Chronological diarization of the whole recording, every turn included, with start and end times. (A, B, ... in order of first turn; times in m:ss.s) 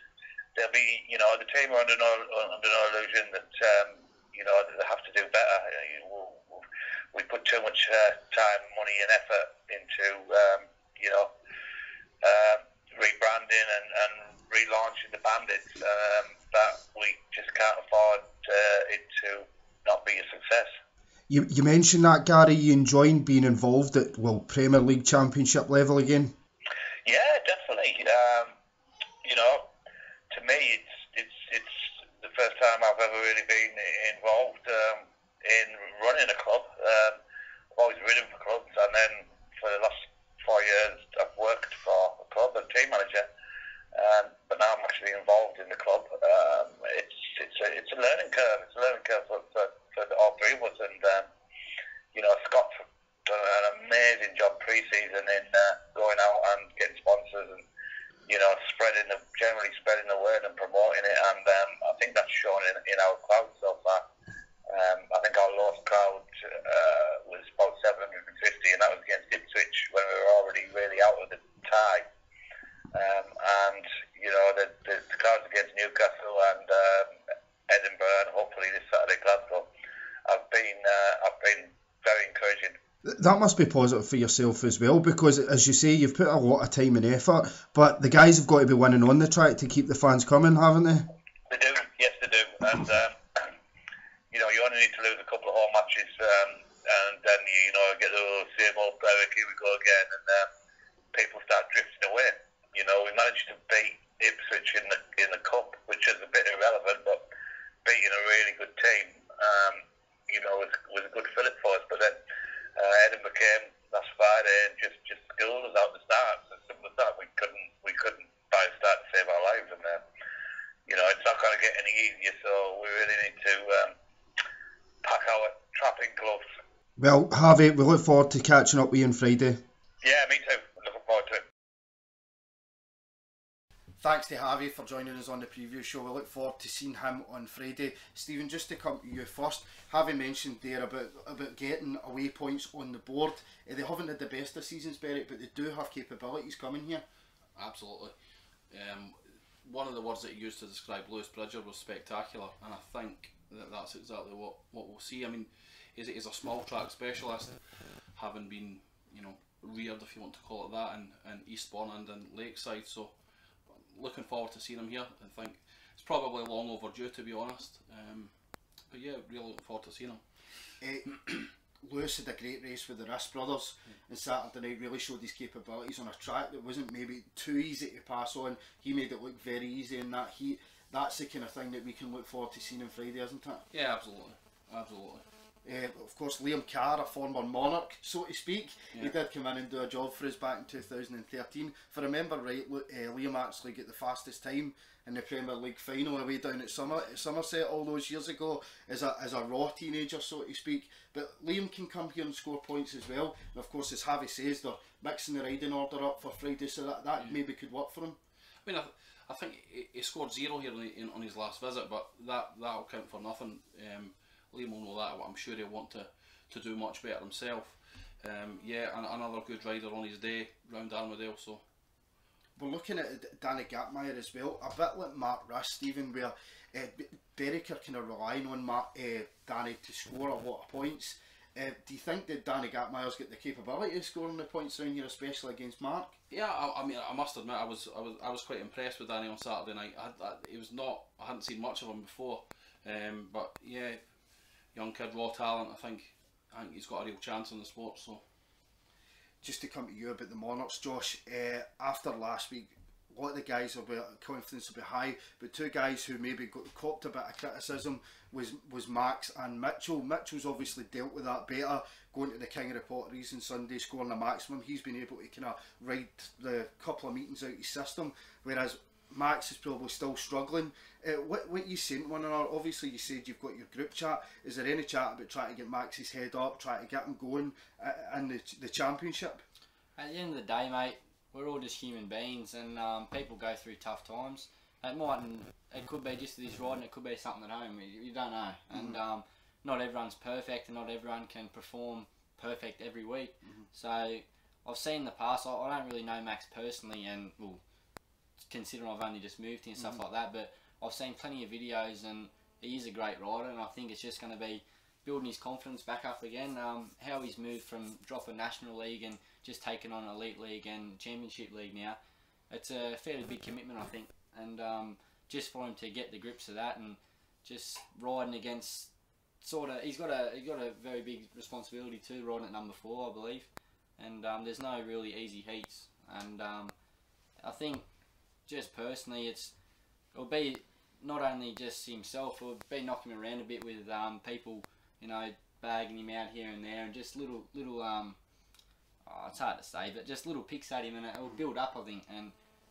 0:00.6-0:06.6 A
0:07.1-0:11.3 A
0:12.2-0:20.7 A
0:21.3-0:26.3 B
0:27.0-0:28.5 A
0:29.2-0:29.7 A
0:30.3-0:37.2 A
0:37.7-0:43.3 A
0:43.9-0:51.3 A
0:52.1-0:57.6 A
0:58.3-1:04.0 A
1:04.7-1:12.1 A
1:12.9-1:17.1 A
1:17.7-1:19.7 A
1:20.3-1:22.7 A
1:23.0-1:31.1 B
1:31.5-1:33.1 A
1:34.3-1:40.5 A
1:41.1-1:47.2 A
1:47.8-1:52.2 A
1:52.8-2:00.0 A
2:00.9-2:03.9 A
2:05.0-2:06.4 A
2:07.0-2:09.6 B
2:10.0-2:11.4 A
2:14.0-2:27.0 B
2:27.6-2:28.1 C
2:28.7-2:43.1 C
2:43.7-2:48.3 C
2:48.9-2:50.2 C
2:50.8-3:03.6 B
3:03.7-3:05.2 C
3:05.6-3:28.2 B
3:28.6-3:41.6 C
3:42.6-3:56.1 B
3:56.3-4:04.0 C
4:04.7-4:08.2 C
4:09.4-4:39.4 B
4:40.0-4:57.6 D
4:48.7-4:49.0 B
4:58.4-5:12.0 D
5:12.5-5:18.9 D
5:19.4-5:26.7 D
5:27.4-5:27.9 D
5:28.4-5:29.5 D
5:30.1-5:38.2 D
5:39.0-5:42.3 D